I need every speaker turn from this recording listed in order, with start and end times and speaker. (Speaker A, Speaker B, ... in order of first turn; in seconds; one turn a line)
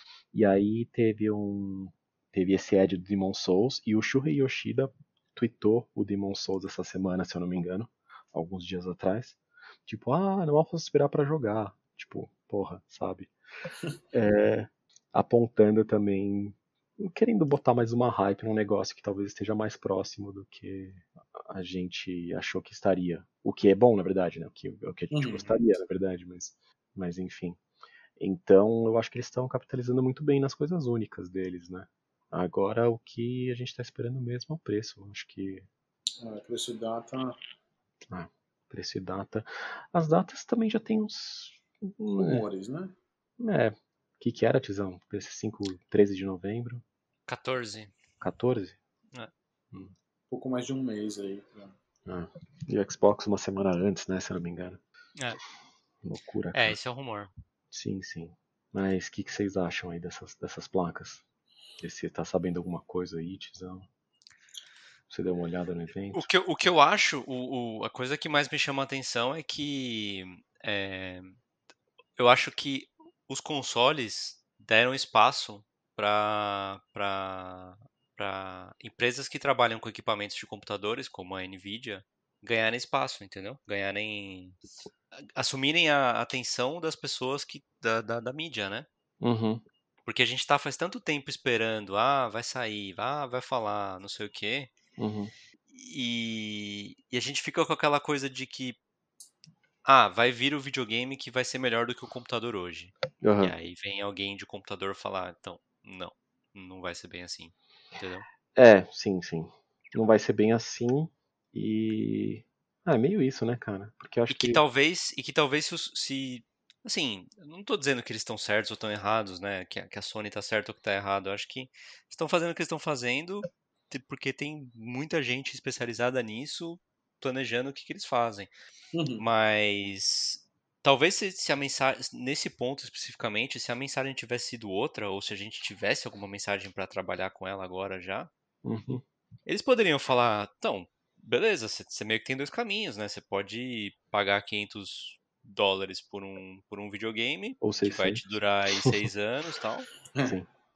Speaker A: 0.3-13.3
Speaker A: 14.1-27.6
Speaker B: 25.1-25.6
Speaker A: 28.2-35.7
Speaker B: 36.2-37.4
Speaker A: 38.1-42.5
Speaker B: 42.2-42.9
Speaker A: 43.4-46.8
Speaker C: 47.3-47.9
Speaker A: 48.2-48.8
Speaker B: 50.3-51.7
Speaker A: 52.0-54.8
Speaker A: 56.0-56.8
Speaker C: 56.5-57.3
Speaker A: 57.7-61.2
Speaker A: 61.8-63.9
Speaker A: 65.1-66.3
Speaker C: 66.1-71.3
Speaker C: 72.2-84.6
Speaker C: 85.3-88.9
Speaker A: 89.2-89.6
Speaker C: 90.0-94.7
Speaker A: 95.0-95.3
Speaker C: 95.7-98.8
Speaker C: 99.8-108.2
Speaker A: 103.2-103.5
Speaker A: 108.5-114.6
Speaker C: 114.3-128.5
Speaker B: 128.9-129.2
Speaker C: 129.2-138.3
Speaker A: 138.6-139.0
Speaker C: 139.4-149.9
Speaker A: 147.6-148.2